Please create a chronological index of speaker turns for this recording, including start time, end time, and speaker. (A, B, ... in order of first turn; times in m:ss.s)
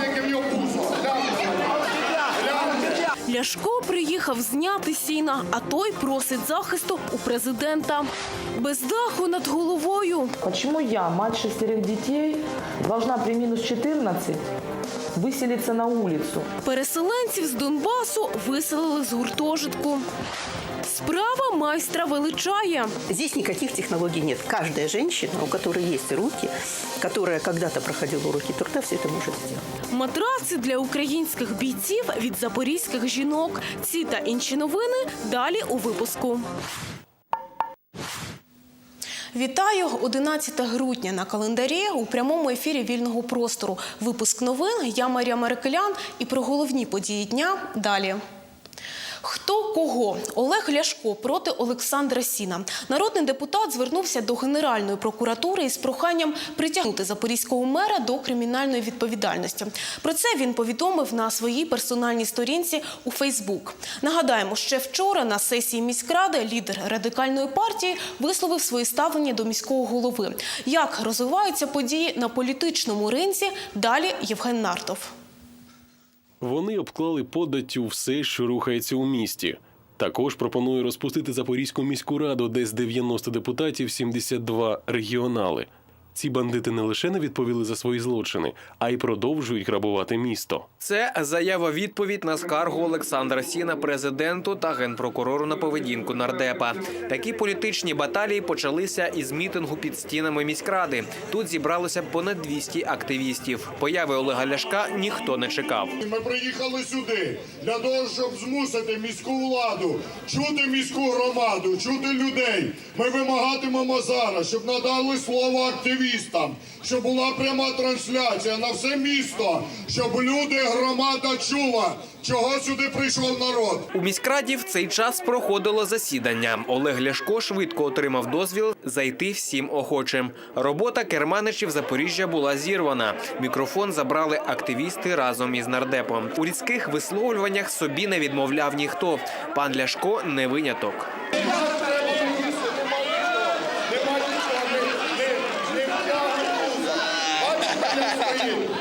0:00.2-0:01.0 A
0:02.4-0:10.3 A
0:10.4-0:14.4 B
0:15.1-0:16.5 B
0:16.6-0:20.1 A
0:20.8-0:22.9 A
0:23.1-0:29.6 C
0:29.9-0:36.5 A
0:39.3-0:48.2 A
0:49.2-1:15.1 A
1:16.4-1:30.6 D
1:30.8-1:45.9 E
1:46.0-2:03.8 F
2:03.9-2:21.1 E